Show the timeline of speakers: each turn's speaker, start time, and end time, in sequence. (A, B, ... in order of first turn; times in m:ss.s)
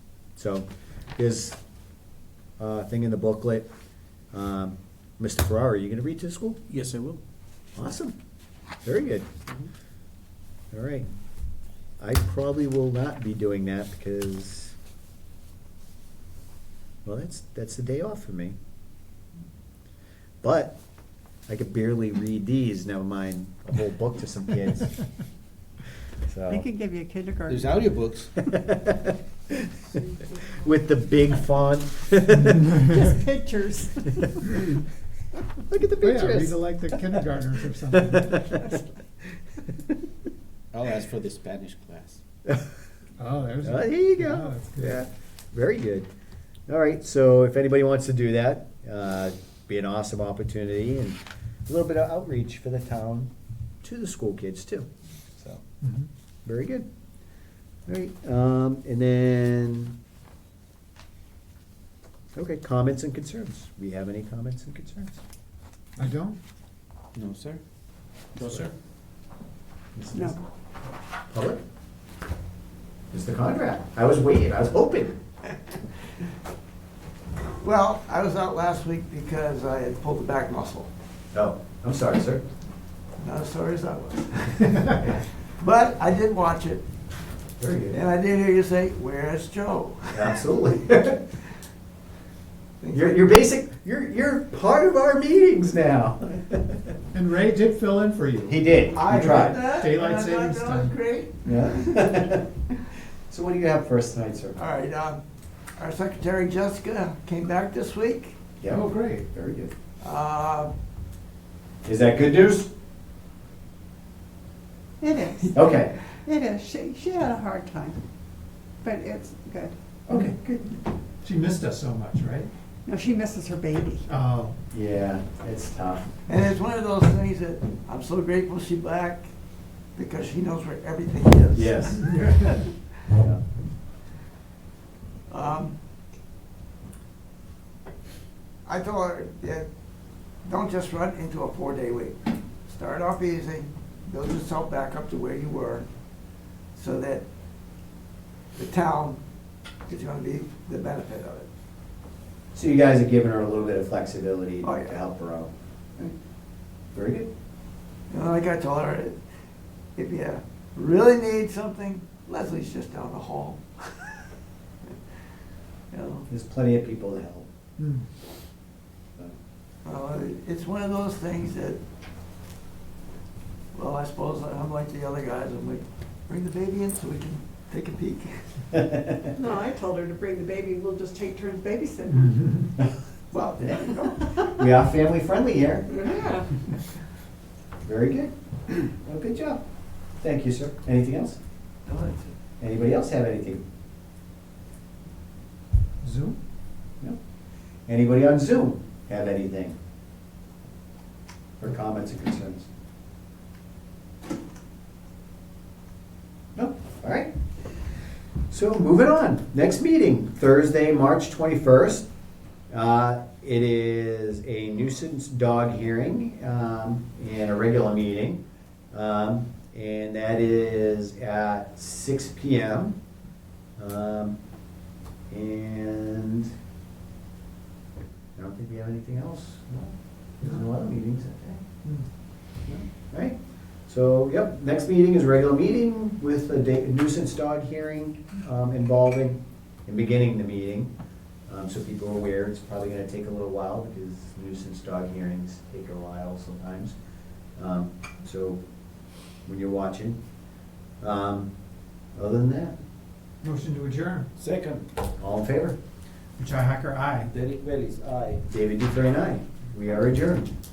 0:00.4-0:01.6 A
0:02.6-0:03.7 A
0:04.3-0:06.6 A
0:06.7-0:07.2 B
0:07.8-0:08.2 A
0:08.8-0:09.3 A
0:10.7-0:11.1 A
0:12.0-0:14.7 A
0:17.0-0:18.6 A
0:20.4-0:20.8 A
0:21.5-0:25.0 A
0:26.3-0:26.6 A
0:26.5-0:27.8 C
0:27.5-0:28.3 B
0:28.4-0:29.6 A
0:30.6-0:32.7 A
0:32.7-0:34.1 C
0:35.6-0:36.9 A
0:36.0-0:38.6 D
0:38.0-0:38.8 A
0:40.7-0:42.2 B
0:43.2-0:45.0 D
0:43.6-0:46.1 A
0:46.7-0:53.3 A
0:53.8-0:54.9 A
0:55.8-0:56.1 D
0:56.4-0:56.8 A
0:57.9-1:00.0 A
1:02.3-1:05.2 A
1:06.0-1:06.4 D
1:07.1-1:07.6 B
1:08.3-1:08.7 B
1:09.9-1:10.4 A
1:10.1-1:10.4 C
1:11.3-1:11.6 A
1:13.1-1:15.2 A
1:17.6-1:20.9 E
1:21.3-1:22.4 A
1:23.2-1:26.8 E
1:27.6-1:28.0 A
1:27.9-1:30.4 E
1:30.1-1:31.2 A
1:32.8-1:33.2 E
1:32.9-1:36.9 A
1:37.1-1:40.9 D
1:38.5-1:39.6 A
1:38.9-1:42.2 E
1:41.4-1:42.5 A
1:43.3-1:44.6 A
1:44.6-1:45.2 E
1:45.8-1:48.4 E
1:48.6-1:49.7 A
1:48.7-1:49.2 D
1:50.0-1:50.7 E
1:51.8-1:52.7 A
1:55.0-1:58.0 C
1:55.5-1:55.9 A
1:58.8-1:59.7 C
2:00.1-2:00.7 A
2:00.1-2:00.3 D
2:01.2-2:02.5 D
2:02.8-2:04.0 C
2:04.1-2:04.6 D
2:04.7-2:06.1 A
2:06.3-2:09.3 E
2:09.9-2:12.8 E
2:11.5-2:12.2 A
2:13.1-2:13.4 A
2:15.3-2:15.8 E
2:18.6-2:19.7 E
2:20.4-2:25.9 E
2:26.7-2:27.2 E
2:28.5-2:29.2 E
2:29.9-2:31.5 E
2:32.5-2:36.1 A
2:34.6-2:35.0 E
2:36.9-2:37.3 A
2:38.1-2:39.2 E
2:40.0-2:44.3 E
2:45.9-2:46.3 E
2:46.3-2:47.5 A
2:47.8-2:48.0 D
2:49.8-2:51.8 E
2:53.7-2:58.4 E
2:58.7-2:59.3 A
2:59.3-3:02.7 C
3:03.3-3:04.4 E
3:04.3-3:06.0 A
3:06.0-3:06.5 C
3:07.8-3:09.6 A
3:10.2-3:11.4 A
3:11.8-3:12.3 E
3:12.6-3:13.6 A
3:16.0-3:16.4 D
3:17.9-3:19.8 A
3:21.6-3:22.7 A
3:26.6-3:27.3 A
3:28.5-3:32.0 A
3:32.7-3:43.0 A
3:43.8-3:44.4 A
3:45.3-3:46.5 A
3:48.4-3:51.6 A
3:52.6-3:53.4 A
3:53.9-4:00.9 A
4:01.5-4:06.9 A
4:07.6-4:08.6 A
4:09.4-4:10.2 A
4:11.0-4:11.5 A
4:12.2-4:12.7 A
4:13.4-4:14.3 D
4:14.4-4:14.9 B
4:15.2-4:15.8 A
4:16.4-4:17.3 D
4:17.2-4:18.4 B
4:18.4-4:20.5 A